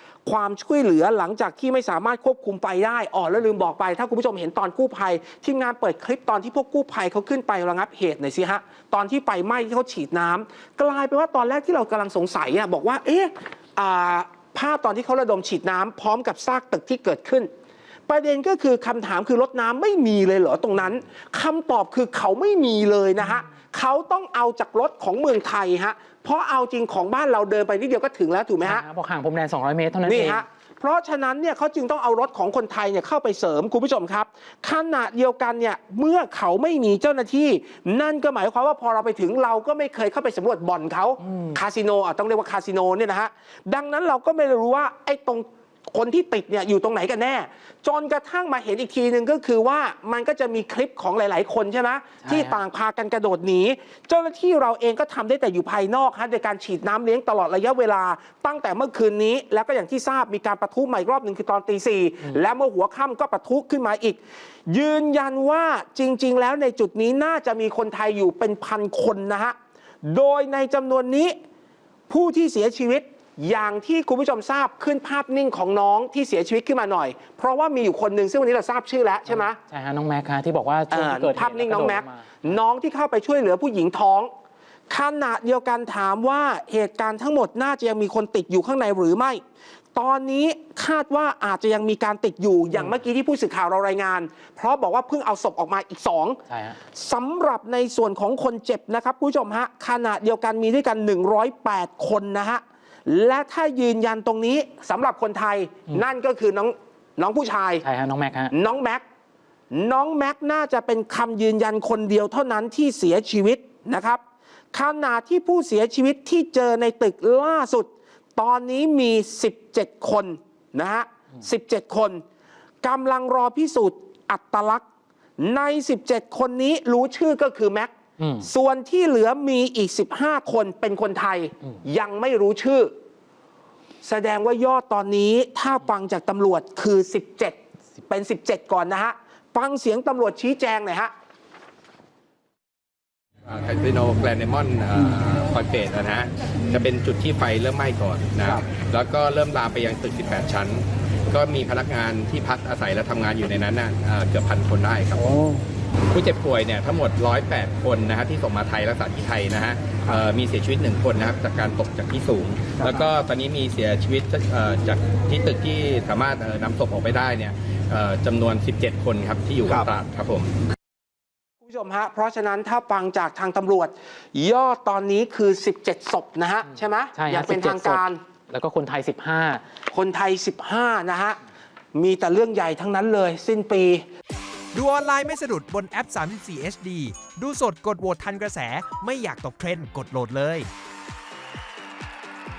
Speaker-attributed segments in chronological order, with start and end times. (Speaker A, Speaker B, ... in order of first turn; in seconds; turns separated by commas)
Speaker A: 0.2-17.5, Speaker A: 18.1-28.8, Speaker B: 28.7-30.4, Speaker A: 30.1-71.3, Speaker A: 72.1-79.6, Speaker B: 79.3-82.2, Speaker A: 80.9-84.3, Speaker A: 84.9-89.4, Speaker A: 89.9-107.8, Speaker B: 107.8-108.5, Speaker A: 108.5-109.0, Speaker A: 109.7-114.2, Speaker A: 114.7-122.2, Speaker A: 122.8-124.8, Speaker A: 125.4-132.9, Speaker A: 134.0-141.1, Speaker C: 143.5-155.3, Speaker C: 156.1-170.5, Speaker A: 171.6-178.2, Speaker B: 177.1-179.6, Speaker A: 179.9-181.4, Speaker A: 181.9-184.1, Speaker D: 184.8-190.7